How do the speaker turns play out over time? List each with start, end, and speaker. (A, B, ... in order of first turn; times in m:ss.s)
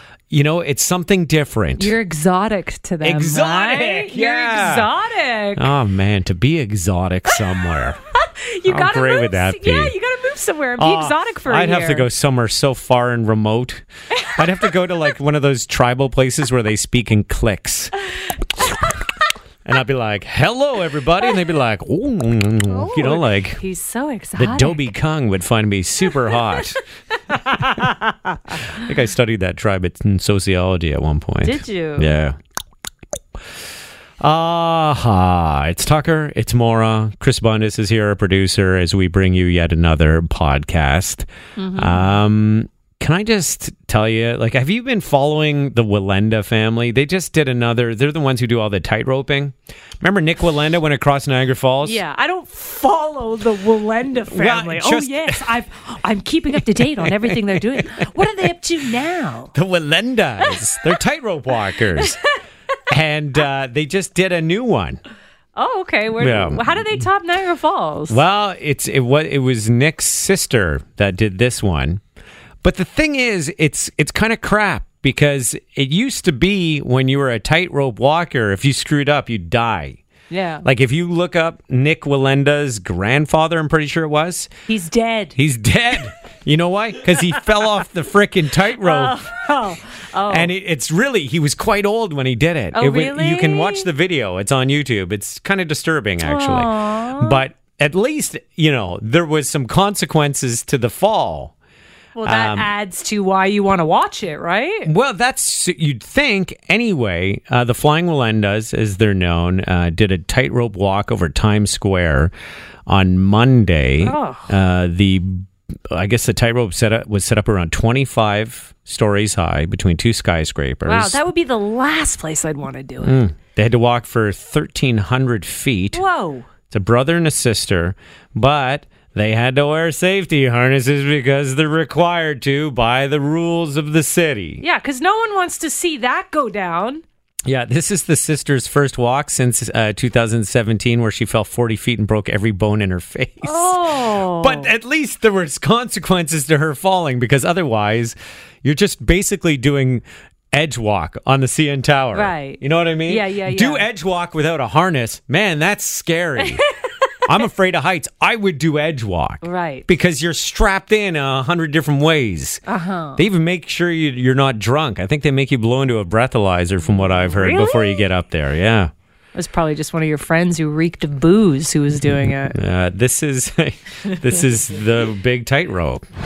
0:00.3-0:01.9 A
0:01.8-0:05.7 B
0:03.0-0:04.9 A
0:05.6-0:08.0 A
0:08.1-0:12.1 B
0:08.7-0:09.9 A
0:10.8-0:17.9 A
0:19.6-0:23.6 A
0:22.7-0:24.8 B
0:24.4-0:26.8 A
0:27.3-0:32.4 A
0:31.4-0:32.1 B
0:34.2-0:52.0 A
0:41.6-0:42.1 B
0:51.8-0:59.5 B
0:54.2-0:55.5 A
0:56.5-0:58.3 A
0:59.5-1:02.2 A
1:02.9-1:05.0 A
1:05.6-1:08.2 B
1:06.2-1:07.0 A
1:08.1-1:12.0 A
1:12.6-1:20.0 A
1:20.3-1:20.6 B
1:20.6-1:24.5 A
1:24.7-1:25.3 B
1:25.3-1:29.6 A
1:28.8-1:30.5 B
1:30.3-1:41.5 A
1:32.7-1:33.9 B
1:36.2-1:37.4 B
1:42.2-1:44.9 B
1:42.2-1:42.7 A
1:44.8-1:52.3 A
1:52.9-2:01.2 A
1:54.0-1:54.5 B
2:00.8-2:03.2 B
2:03.0-2:06.0 A
2:05.9-2:06.4 B
2:06.7-2:14.6 A
2:14.6-2:17.0 B
2:17.4-2:36.6 A
2:23.4-2:24.7 B
2:32.1-2:33.8 B
2:37.2-2:42.6 A
2:39.4-2:39.9 B
2:42.6-2:43.2 B
2:43.2-2:48.9 A
2:47.2-2:48.0 B
2:49.3-2:52.6 B
2:52.0-2:56.0 A